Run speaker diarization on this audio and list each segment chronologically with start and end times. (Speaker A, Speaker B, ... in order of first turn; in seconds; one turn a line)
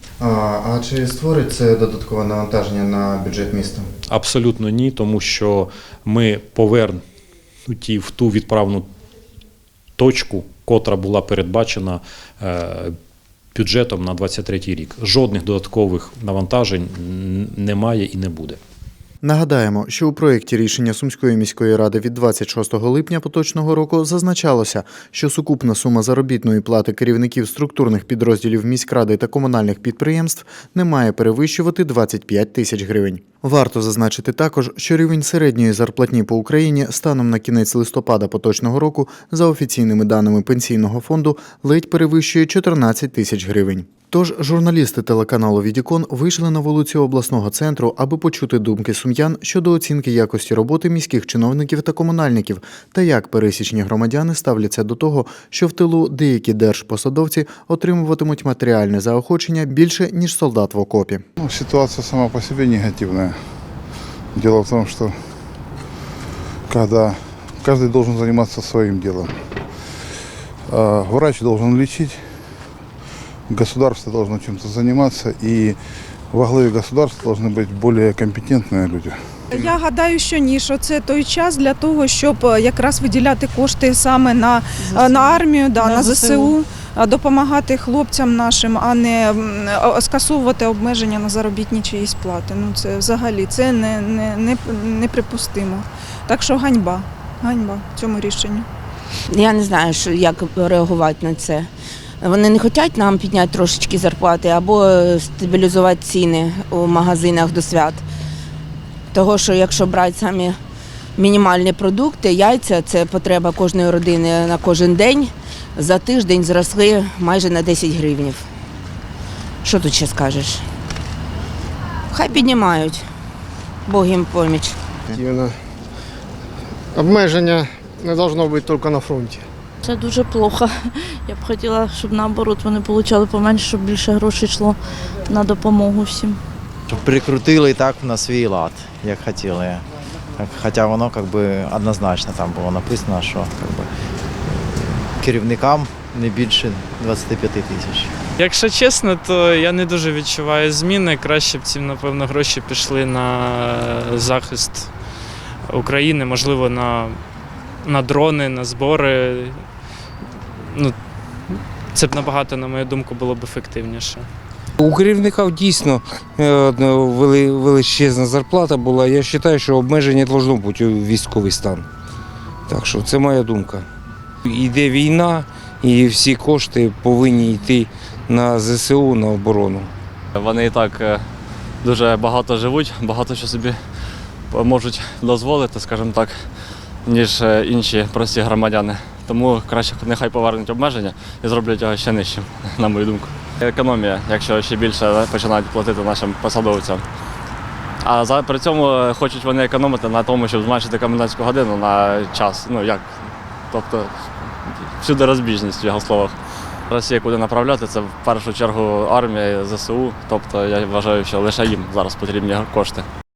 Speaker A: 0.2-3.9
Speaker B: 4.2-7.0
Speaker B: 7.7-8.8
Speaker B: 10.0-12.0
Speaker B: 13.6-18.6
Speaker A: 19.2-61.2
Speaker C: 61.4-63.4
Speaker C: 64.3-65.2
Speaker C: 66.7-69.3
Speaker C: 70.7-72.2
Speaker C: 73.5-75.8
Speaker C: 76.3-79.2
Speaker D: 79.5-98.7
Speaker E: 85.0-85.3
Speaker E: 99.3-101.7
Speaker E: 102.2-108.0
Speaker E: 109.1-110.6
Speaker E: 111.2-118.5
Speaker E: 119.6-120.7
Speaker E: 122.1-123.1
Speaker E: 123.9-124.8
Speaker F: 125.2-125.5
Speaker F: 127.0-129.4
Speaker G: 129.8-136.4
Speaker H: 136.9-139.8
Speaker H: 140.4-143.9
Speaker H: 144.4-148.1
Speaker I: 148.4-154.9
Speaker I: 155.7-157.2
Speaker I: 157.8-159.6
Speaker I: 160.7-160.9
Speaker I: 161.5-164.3
Speaker J: 164.8-171.8
Speaker J: 172.7-173.8
Speaker J: 174.5-179.9
Speaker K: 180.3-181.2
Speaker K: 181.8-183.8
Speaker K: 184.5-186.4
Speaker K: 187.1-197.1
Speaker K: 198.0-203.2
Speaker K: 203.7-206.4
Speaker K: 206.9-213.1